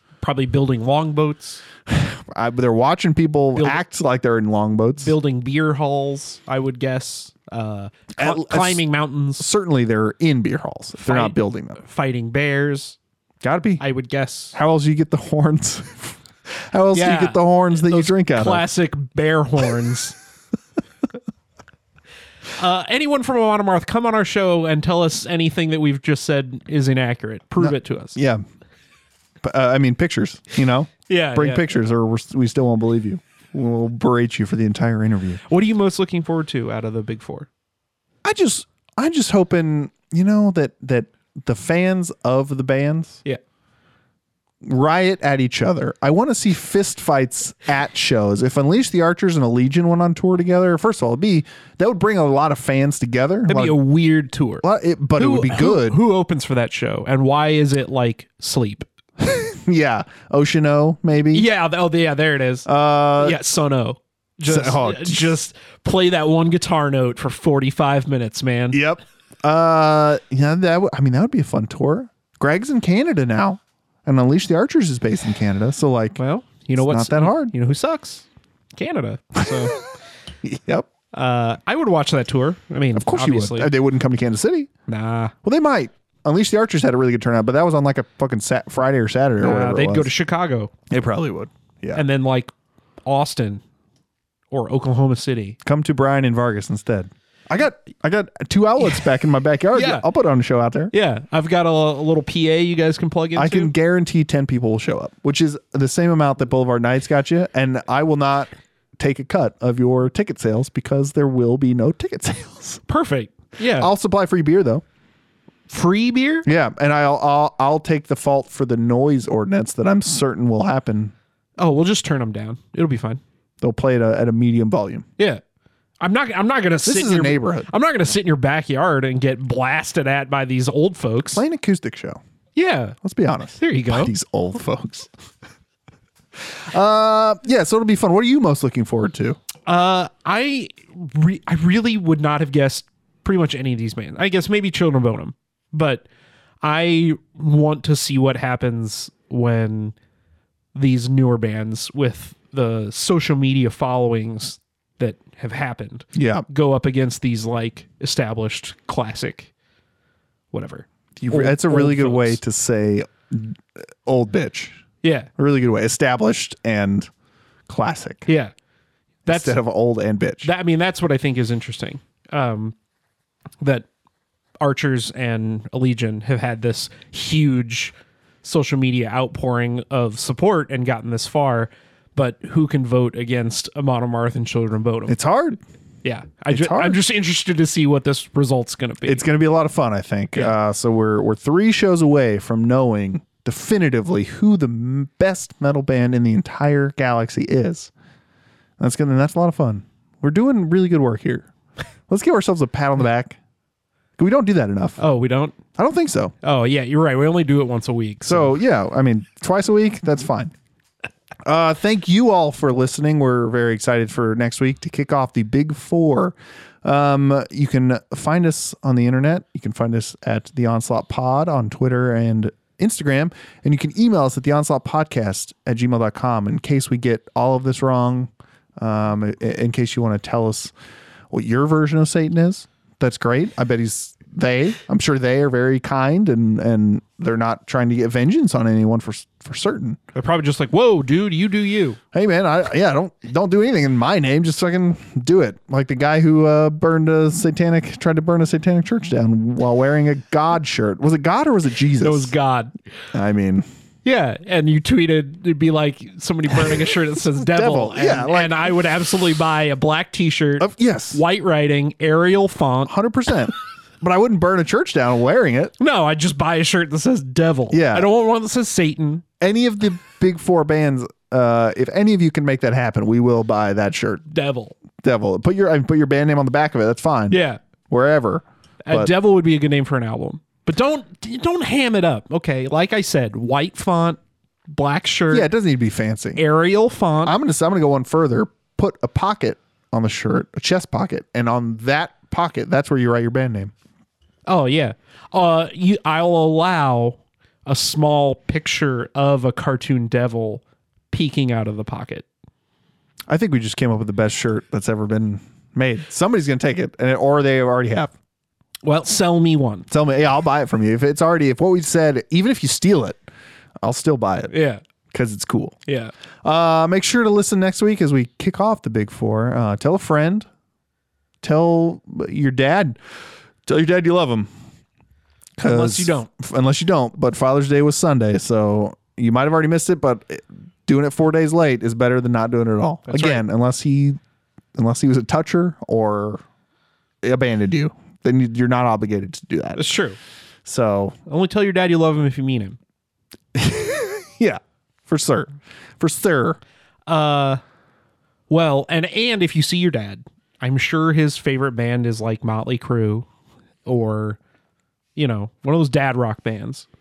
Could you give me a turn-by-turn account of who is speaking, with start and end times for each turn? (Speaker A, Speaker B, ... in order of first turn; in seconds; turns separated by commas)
Speaker A: 0.2-1.6, Speaker B: 1.9-5.1, Speaker A: 3.6-3.8, Speaker A: 5.0-9.5, Speaker B: 8.2-8.8, Speaker B: 9.4-11.8, Speaker A: 11.0-13.0, Speaker B: 13.4-13.8, Speaker A: 13.8-14.6, Speaker B: 14.5-18.7, Speaker A: 16.9-20.2, Speaker A: 22.6-28.2, Speaker B: 27.6-28.4, Speaker B: 29.4-35.4, Speaker A: 31.1-31.7, Speaker A: 35.5-37.5, Speaker B: 38.2-43.2, Speaker B: 44.6-53.8, Speaker A: 53.5-54.6, Speaker B: 54.6-56.0, Speaker A: 55.2-58.9, Speaker B: 59.2-61.5, Speaker A: 61.3-68.8, Speaker B: 62.7-63.4, Speaker B: 64.5-65.3, Speaker B: 68.7-76.2, Speaker A: 76.2-78.3, Speaker B: 76.8-77.5, Speaker A: 78.8-79.8, Speaker B: 80.4-80.9, Speaker A: 81.1-83.7, Speaker B: 83.0-84.7, Speaker A: 84.9-85.3, Speaker B: 85.4-90.1, Speaker A: 89.4-90.7, Speaker B: 90.9-92.0, Speaker A: 91.9-92.5, Speaker A: 93.1-93.6, Speaker A: 94.5-95.6, Speaker B: 95.6-100.9, Speaker A: 99.7-100.1, Speaker A: 100.9-103.7, Speaker B: 103.4-112.8, Speaker A: 112.9-113.9, Speaker B: 113.7-114.8, Speaker A: 115.7-116.5, Speaker B: 116.5-121.1, Speaker A: 121.6-123.2, Speaker B: 123.6-125.0, Speaker A: 126.0-131.4, Speaker B: 126.9-127.7, Speaker B: 131.3-132.2, Speaker A: 132.6-133.0, Speaker B: 133.0-135.1, Speaker A: 133.6-134.1, Speaker B: 136.4-139.4, Speaker A: 139.7-146.1, Speaker A: 146.6-149.9, Speaker A: 150.8-159.5, Speaker B: 156.2-156.5, Speaker A: 160.5-162.4, Speaker B: 161.2-164.8, Speaker A: 165.0-165.3, Speaker B: 165.4-167.1, Speaker B: 167.7-168.3, Speaker A: 168.3-168.5, Speaker B: 169.2-170.5, Speaker A: 169.3-169.6, Speaker A: 170.4-172.8, Speaker A: 173.6-173.9, Speaker A: 174.6-185.2, Speaker B: 185.1-185.6, Speaker A: 186.0-189.3, Speaker B: 186.5-187.0, Speaker B: 189.1-197.9, Speaker B: 198.8-201.5, Speaker B: 202.1-203.4, Speaker B: 204.2-205.0, Speaker A: 205.0-205.6, Speaker B: 205.8-206.3, Speaker A: 206.4-208.5, Speaker B: 208.3-210.5, Speaker B: 211.4-230.7, Speaker B: 231.3-240.0, Speaker A: 240.2-242.0, Speaker B: 242.1-252.3, Speaker A: 252.0-252.8, Speaker B: 253.1-253.7, Speaker A: 254.1-262.9, Speaker B: 257.4-258.7, Speaker B: 260.6-261.2, Speaker B: 262.9-265.7, Speaker A: 265.8-269.2, Speaker B: 267.7-268.1, Speaker B: 269.4-274.3, Speaker A: 274.3-274.8, Speaker B: 275.0-279.1, Speaker A: 277.3-277.6, Speaker A: 278.9-285.5, Speaker B: 285.3-286.4, Speaker A: 286.4-287.4, Speaker B: 287.2-293.7, Speaker A: 294.5-302.3, Speaker B: 303.3-308.1, Speaker A: 308.8-309.9, Speaker B: 309.9-313.2, Speaker B: 313.8-314.5, Speaker A: 314.5-314.8, Speaker B: 315.1-315.8, Speaker A: 315.9-316.1, Speaker B: 316.4-320.5, Speaker B: 321.4-324.5, Speaker B: 325.6-334.2, Speaker A: 325.6-326.3, Speaker A: 333.1-333.4, Speaker B: 334.8-336.4, Speaker B: 337.2-339.9, Speaker A: 339.8-340.2, Speaker B: 340.6-341.1, Speaker A: 341.3-342.8, Speaker B: 343.5-346.6, Speaker A: 347.1-347.6, Speaker A: 348.5-353.3, Speaker A: 353.9-354.4, Speaker A: 355.2-356.9